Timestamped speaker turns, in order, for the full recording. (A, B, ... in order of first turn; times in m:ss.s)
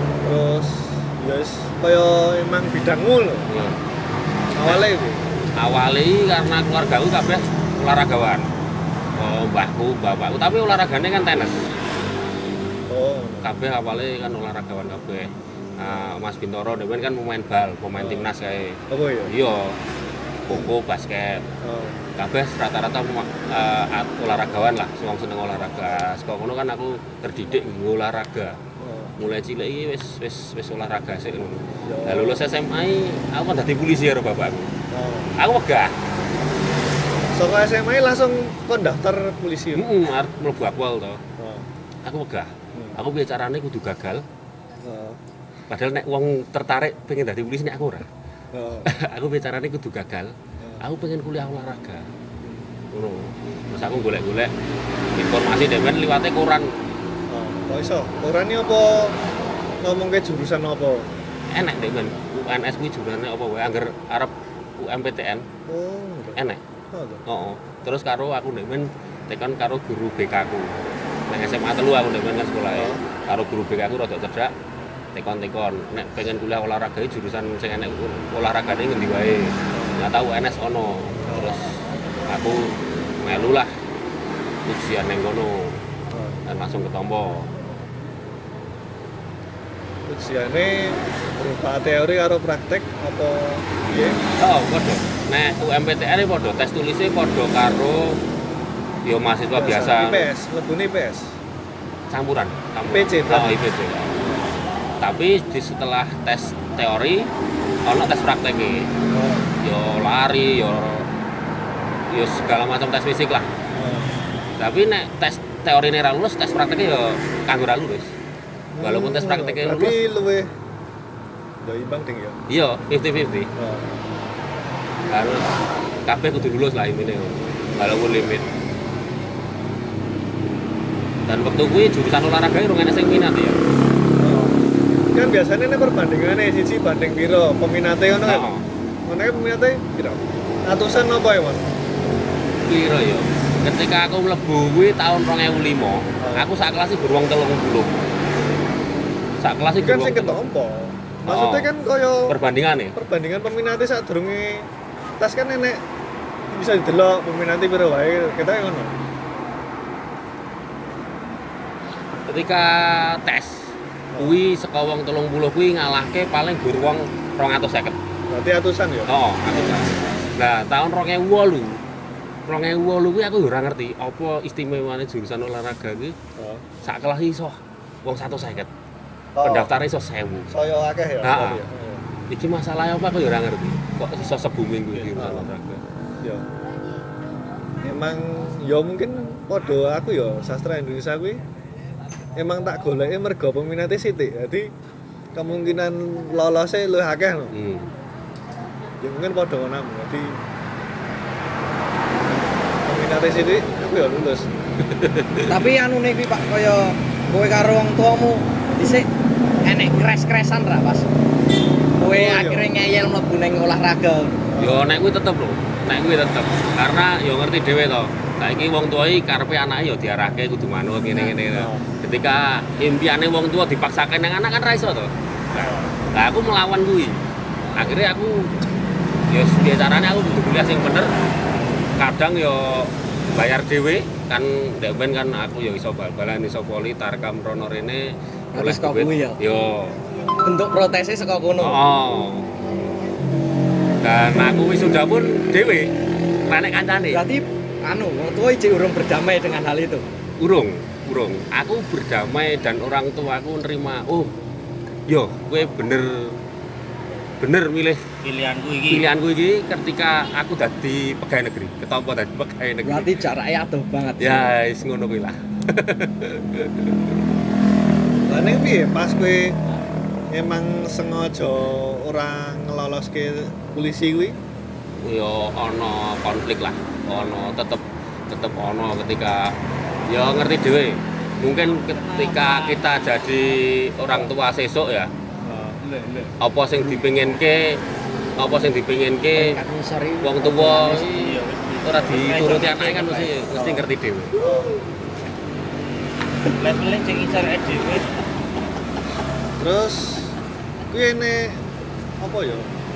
0:00.2-0:03.4 A
0:03.5-0:03.8 B
0:04.6-0:05.2 A
0:05.6-0:08.5 B
0:09.2-0:11.6 B
0:12.9-0:13.5 A
0:13.4-0:19.8 B
0:18.0-0:18.3 A
0:18.9-0:19.3 A
0:20.4-0:21.4 B
0:21.6-0:22.0 A
0:22.2-0:28.6 B
0:28.8-0:29.1 A
0:29.2-0:34.7 B
0:31.8-0:32.4 A
0:34.9-0:35.3 A
0:35.4-0:35.9 B
0:37.2-0:39.9 A
0:39.7-0:41.2 B
0:41.4-0:41.7 A
0:42.0-0:44.2 B
0:42.7-0:43.0 A
0:44.8-0:45.2 A
0:45.7-0:48.1 B
0:48.5-0:48.9 A
0:48.8-0:52.1 B
0:52.9-0:54.5 B
0:55.2-0:56.7 B
0:57.3-0:59.2 A
0:59.8-1:01.1 A
1:01.5-1:05.4 B
1:05.7-1:07.2 A
1:06.4-1:06.6 B
1:07.2-1:14.5 B
1:12.7-1:13.0 A
1:15.1-1:23.7 B
1:19.7-1:20.0 A
1:21.3-1:21.5 A
1:24.6-1:25.8 B
1:26.1-1:26.4 A
1:26.5-1:27.5 B
1:30.1-1:34.2 A
1:34.4-1:38.2 B
1:39.0-1:40.3 B
1:39.5-1:41.4 A
1:42.1-1:44.1 B
1:42.9-1:43.6 A
1:44.2-1:44.6 A
1:45.0-1:47.3 B
1:47.8-1:48.9 B
1:49.1-1:49.5 A
1:49.6-1:51.1 B
1:52.1-1:53.5 B
1:53.7-1:54.2 A
1:54.6-1:58.1 B
1:58.7-2:00.5 A
1:58.8-2:00.0 B
2:01.6-2:02.4 A
2:02.5-2:03.5 B
2:03.6-2:03.9 A
2:05.1-2:05.5 B
2:06.0-2:08.4 B
2:11.3-2:13.6 B
2:14.2-2:18.5 A
2:18.2-2:18.6 B
2:19.0-2:21.7 A
2:22.6-2:27.9 B
2:26.2-2:26.5 A
2:29.4-2:30.4 B
2:29.8-2:32.4 A
2:31.3-2:31.7 B
2:32.3-2:32.9 B
2:32.9-2:35.8 A
2:36.5-2:39.0 A
2:42.2-2:48.0 B
2:44.1-2:44.4 A
2:48.3-2:49.8 A
2:49.1-2:51.8 B
2:52.5-2:56.1 B
2:56.4-2:56.6 A
2:56.8-2:58.7 B
2:59.3-2:59.7 A
2:59.4-3:00.5 B
3:00.5-3:02.0 A
3:01.2-3:01.6 B
3:02.3-3:05.8 B
3:05.1-3:05.5 A
3:06.2-3:06.4 A
3:07.8-3:11.4 A
3:12.4-3:14.7 A
3:15.3-3:17.5 A
3:17.5-3:17.9 B
3:19.0-3:20.4 A
3:22.8-3:24.5 A
3:24.8-3:25.5 B
3:25.5-3:29.1 C
3:29.6-3:31.0 C
3:32.0-3:34.4 C
3:32.0-3:32.7 A
3:34.5-3:34.8 A
3:34.6-3:45.1 B
3:41.5-3:41.8 A
3:45.5-3:46.0 A
3:46.1-3:47.2 B
3:47.7-3:48.6 B
3:49.3-3:51.1 B
3:52.0-4:00.0 B
3:58.5-3:59.4 C
4:00.4-4:01.8 C
4:01.6-4:02.5 B
4:04.0-4:05.9 B
4:06.4-4:07.2 B
4:07.1-4:10.0 C
4:10.4-4:14.3 B
4:15.1-4:16.4 B
4:17.4-4:18.0 B
4:18.2-4:19.1 D
4:18.9-4:23.1 B
4:22.8-4:24.5 C
4:24.2-4:27.0 B
4:28.2-4:29.6 A
4:30.3-4:34.4 A
4:35.0-4:39.5 B
4:37.1-4:37.4 A
4:40.1-4:45.1 B
4:41.9-4:42.8 D
4:45.4-4:45.8 A
4:45.8-4:46.3 D
4:46.4-4:47.8 B
4:48.4-4:49.6 B
4:49.3-4:51.1 C
4:50.2-4:54.4 B
4:51.0-4:53.3 D
4:53.6-4:53.9 A
4:54.4-4:54.8 A
4:56.5-4:58.1 D
4:59.6-5:00.4 A
5:00.9-5:01.6 A
5:02.2-5:02.7 A